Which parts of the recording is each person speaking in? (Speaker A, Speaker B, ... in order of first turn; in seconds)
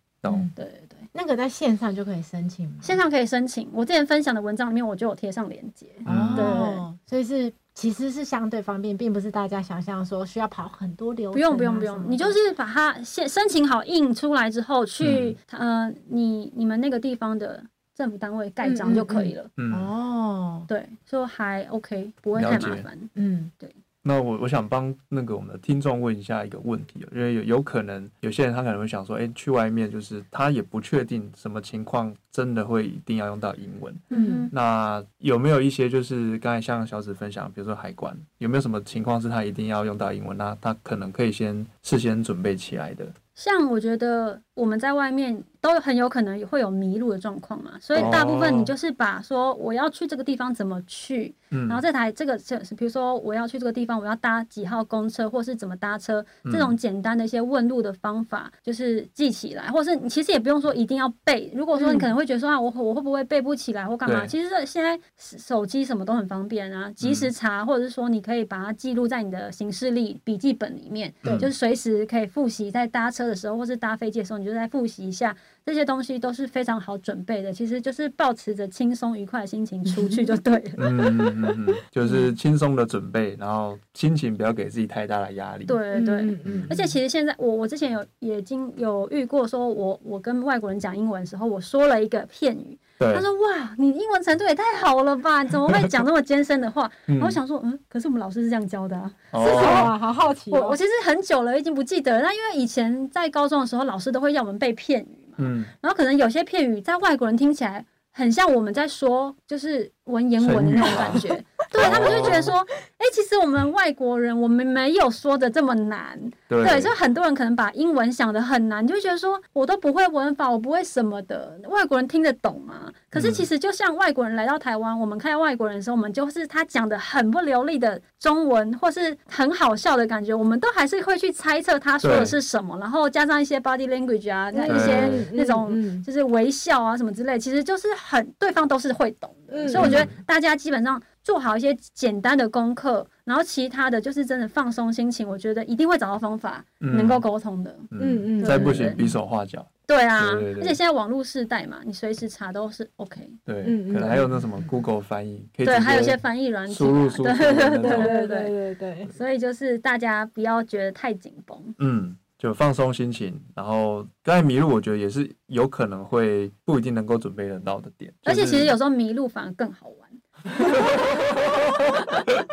Speaker A: 0.2-0.5, 6.0-6.5, 15.0-15.3, 19.6-19.9, 22.4-22.9, 24.0-43.1, 47.9-48.7, 51.5-51.8, 56.4-56.8, 64.0-64.3, 67.0-67.3, 71.2-71.5, 80.8-85.8, 86.4-86.7, 93.0-93.2, 97.1-97.4, 99.3-99.9, 105.4-105.7, 110.4-112.5, 116.5-116.9, 123.1-123.5, 132.0-132.3, 134.7-135.2, 139.7-140.1, 146.8-147.2, 147.9-150.8, 153.4-158.1, 161.8-168.7
Speaker B: 0.3-0.5, 1.1-3.0, 6.0-12.4, 18.6-20.7, 23.1-23.5, 34.1-34.5, 61.7-62.1, 79.9-80.3, 82.0-82.3, 85.9-86.8, 99.4-100.8, 111.8-112.3, 134.5-136.0, 139.5-140.1, 148.0-149.0, 153.6-154.7, 157.8-159.1
Speaker C: 0.5-1.1, 2.8-6.8, 11.3-19.5, 20.7-23.7, 34.1-34.5, 43.3-81.2, 85.7-99.9, 100.5-149.0, 149.9-153.4, 155.6-158.5, 159.1-161.7, 168.2-171.1